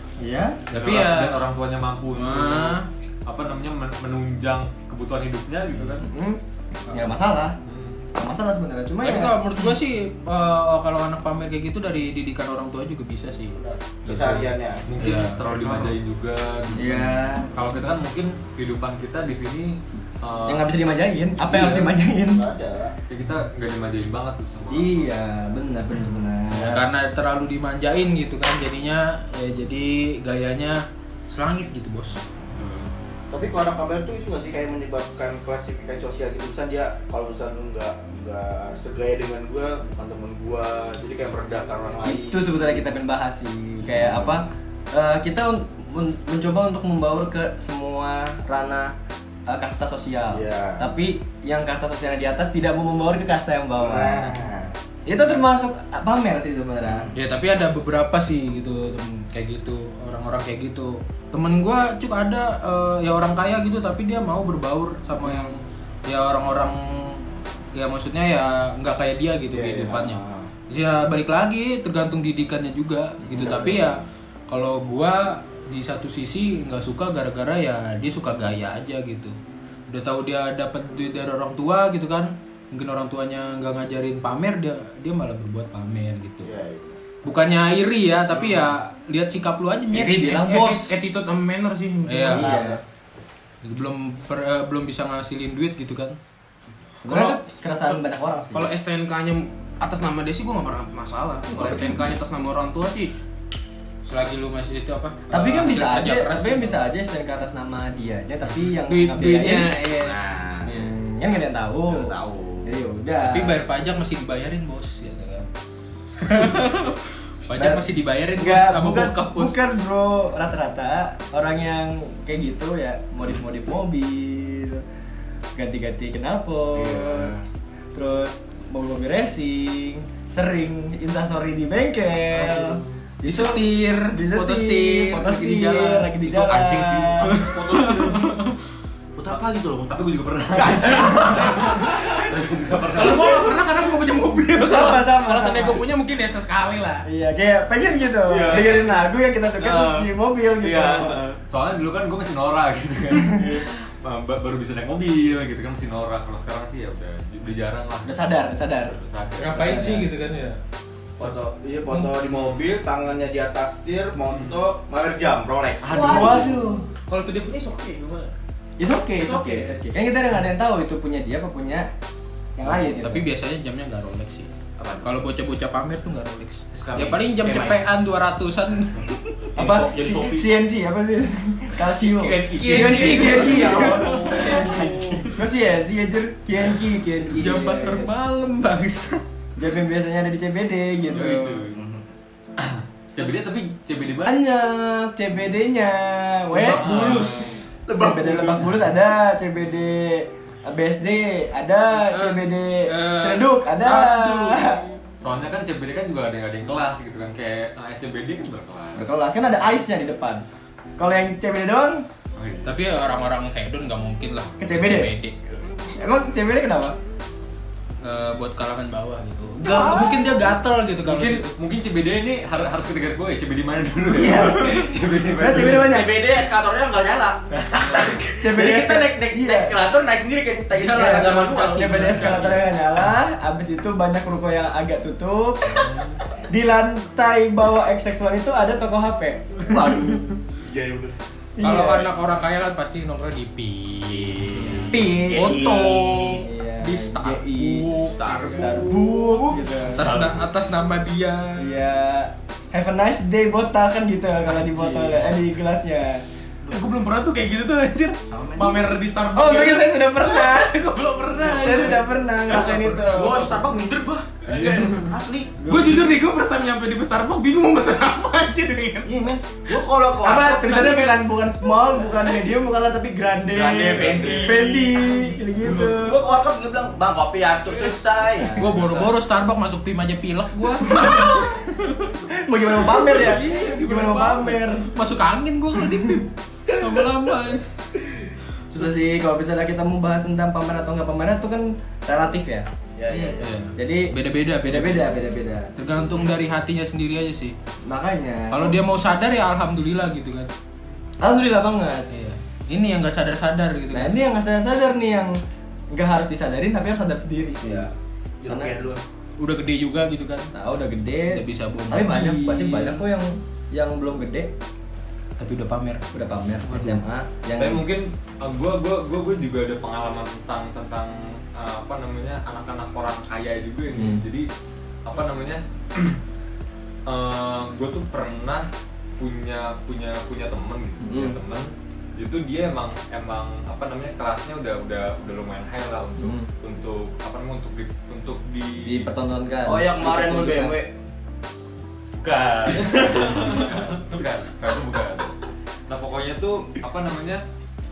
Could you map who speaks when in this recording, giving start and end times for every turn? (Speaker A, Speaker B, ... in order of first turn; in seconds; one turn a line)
Speaker A: 0.2-0.6
Speaker B: 0.7-1.4
Speaker C: 0.7-6.1
Speaker B: 2.1-2.9
Speaker A: 6.0-7.6
Speaker C: 7.6-8.0
Speaker A: 8.1-9.4
Speaker B: 9.0-15.9
Speaker D: 13.6-14.8
Speaker C: 14.9-20.7
Speaker A: 16.8-17.5
Speaker A: 20.5-22.4
Speaker D: 22.2-22.9
Speaker C: 23.1-25.1
Speaker A: 24.7-26.8
Speaker B: 26.5-32.2
Speaker C: 32.5-32.9
Speaker D: 33.3-42.8
Speaker A: 42.0-48.9
Speaker D: 43.9-44.4
Speaker A: 49.5-54.4
Speaker D: 50.3-50.9
Speaker D: 53.8-54.7
Speaker A: 55.0-57.1
Speaker D: 56.9-57.1
Speaker B: 57.1-79.4
Speaker D: 69.5-70.5
Speaker D: 73.3-73.8
Speaker B: 79.9-86.5
Speaker D: 86.4-87.0
Speaker B: 87.2-90.7
Speaker A: 89.9-91.0
Speaker E: 90.4-92.6
Speaker B: 92.1-92.5
Speaker A: 92.3-92.8
Speaker D: 92.4-92.8
Speaker B: 93.6-96.2
Speaker A: 97.0-98.7
Speaker E: 97.0-98.0
Speaker E: 98.5-103.1
Speaker B: 104.0-106.8
Speaker A: 105.3-109.7
Speaker C: 108.4-108.7
Speaker E: 108.8-110.2
Speaker D: 109.9-110.9
Speaker A: 110.6-112.1
Speaker D: 111.9-112.7
Speaker A: 112.6-113.6
Speaker B: 113.2-115.5
Speaker B: 116.2-119.6
Speaker A: 117.5-117.8
Speaker A: 118.4-124.8
Speaker A: 125.5-127.3
Speaker D: 126.7-127.4
Speaker A: 127.9-137.3
Speaker B: 133.2-136.1
Speaker C: 136.5-136.8
Speaker D: 137.0-138.4
Speaker B: 137.2-138.5
Speaker D: 139.2-141.9
Speaker C: 139.3-143.5
Speaker E: 141.7-142.2
Speaker D: 142.7-143.1
Speaker E: 142.9-147.1
Speaker A: 144.6-145.8
Speaker A: 147.0-151.2
Speaker D: 148.3-149.0
Speaker E: 148.5-148.8
Speaker D: 149.6-151.4
Speaker C: 151.5-158.2
Speaker D: 153.4-153.6
Speaker A: 158.0-158.9
Speaker C: 158.8-159.8
Speaker B: 159.4-160.6
Speaker A: 159.5-160.1
Speaker D: 161.2-166.6
Speaker C: 162.1-162.8
Speaker C: 164.2-164.6
Speaker C: 165.8-166.6
Speaker A: 165.9-166.8
Speaker E: 167.0-168.3
Speaker A: 168.8-171.9
Speaker E: 169.2-169.8
Speaker A: 172.6-173.3
Speaker B: 173.0-174.5
Speaker D: 174.8-175.1
Speaker B: 175.0-179.2
Speaker D: 176.7-177.8
Speaker D: 179.5-180.5
Speaker A: 179.5-188.1
Speaker D: 182.0-184.6
Speaker E: 182.3-185.5
Speaker B: 182.6-184.6
Speaker B: 187.3-189.2
Speaker A: 189.6-191.7
Speaker C: 191.1-191.8
Speaker D: 191.7-192.1
Speaker C: 192.6-194.4
Speaker A: 194.2-204.8
Speaker C: 196.6-197.6
Speaker B: 196.7-197.3
Speaker D: 196.8-198.7
Speaker B: 202.0-204.8
Speaker C: 205.2-209.1
Speaker A: 208.9-210.4
Speaker A: 211.0-212.1
Speaker C: 212.4-212.7
Speaker B: 212.6-215.3
Speaker A: 214.6-215.1
Speaker A: 215.9-216.9
Speaker B: 218.0-221.5
Speaker A: 219.6-220.5
Speaker C: 221.0-226.0
Speaker A: 224.1-226.1
Speaker D: 225.5-232.2
Speaker C: 227.6-228.2
Speaker A: 228.4-229.7
Speaker B: 230.7-232.7
Speaker A: 230.9-235.8
Speaker C: 232.2-232.5
Speaker C: 235.7-236.2
Speaker A: 236.5-239.7
Speaker D: 239.7-241.1
Speaker A: 241.6-242.1
Speaker B: 241.6-248.1
Speaker D: 244.1-246.4
Speaker A: 244.9-245.7
Speaker A: 246.4-250.2
Speaker D: 247.9-250.4
Speaker B: 249.9-251.8
Speaker A: 251.6-256.2
Speaker B: 254.6-255.2
Speaker E: 256.6-262.1
Speaker D: 258.3-258.9
Speaker A: 259.3-260.8
Speaker A: 261.4-263.6
Speaker D: 262.5-265.6
Speaker E: 264.4-265.0
Speaker C: 264.5-265.1
Speaker E: 265.6-269.1
Speaker A: 265.6-266.1
Speaker D: 269.0-271.1
Speaker A: 270.2-276.2
Speaker D: 273.5-278.8
Speaker A: 278.2-278.7
Speaker B: 278.6-281.9
Speaker A: 280.9-281.4
Speaker A: 282.3-284.9
Speaker B: 283.0-287.6
Speaker E: 283.3-283.7
Speaker A: 288.7-294.1
Speaker D: 292.9-293.5
Speaker B: 293.4-295.2
Speaker A: 294.6-295.7
Speaker B: 295.8-297.6
Speaker A: 297.9-298.8
Speaker B: 298.5-300.5
Speaker A: 301.2-302.1
Speaker B: 302.1-304.2
Speaker A: 303.9-305.3
Speaker A: 305.9-307.9
Speaker D: 307.6-309.0
Speaker A: 308.5-308.8
Speaker B: 309.4-310.5
Speaker A: 310.5-314.5
Speaker B: 311.3-312.4
Speaker B: 315.4-316.0
Speaker A: 316.1-317.8
Speaker B: 316.6-317.0
Speaker C: 317.6-324.5
Speaker A: 323.9-324.2
Speaker C: 325.0-326.2
Speaker C: 327.1-328.7
Speaker C: 329.2-339.1
Speaker A: 331.0-331.4
Speaker A: 336.2-336.5
Speaker A: 338.8-340.8
Speaker D: 339.6-340.9
Speaker C: 342.1-345.3
Speaker C: 345.9-347.4